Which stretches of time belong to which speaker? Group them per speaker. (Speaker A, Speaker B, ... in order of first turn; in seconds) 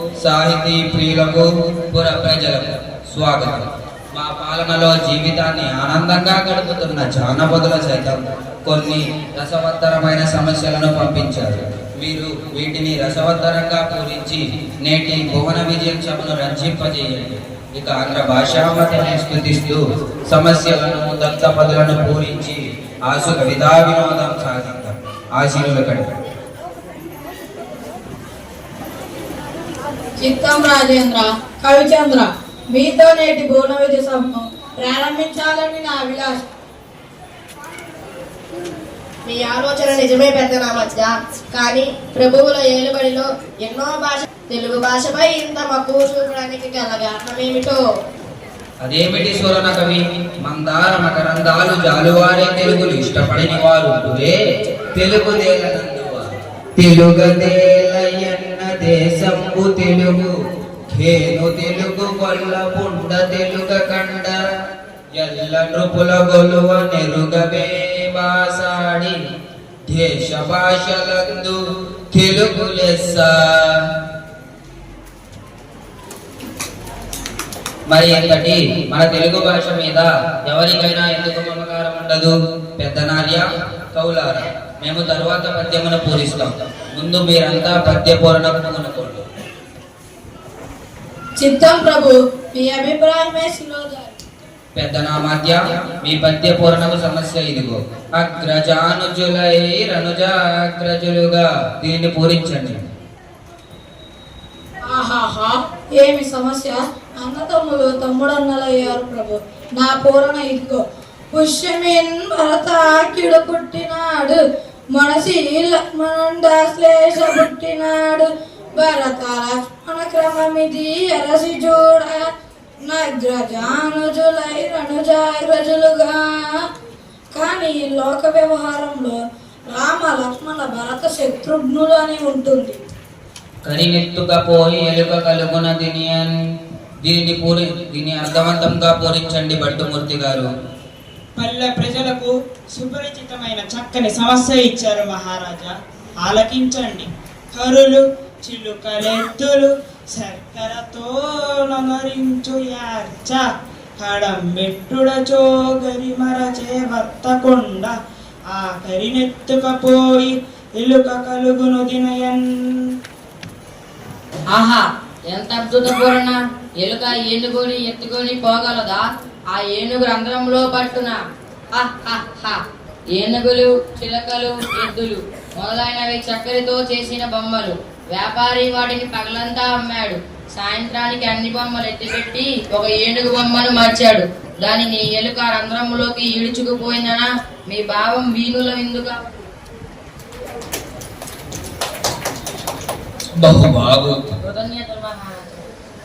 Speaker A: 0.2-26.1, 48.8-54.3, 54.9-56.2, 56.8-60.3, 60.9-64.4, 65.1-69.1, 69.9-71.5, 72.1-73.8, 77.9-89.2, 94.7-102.8, 133.6-136.3, 137.0-140.5, 193.4-194.3
Speaker B: 30.2-36.5, 91.4-94.2, 104.9-114.4, 114.9-122.3, 122.8-126.6, 127.3-132.8
Speaker C: 39.2-47.8
Speaker D: 141.3-153.4, 154.0-157.9, 158.5-162.9
Speaker E: 164.5-171.2, 171.7-172.6, 173.1-189.3, 194.4-195.4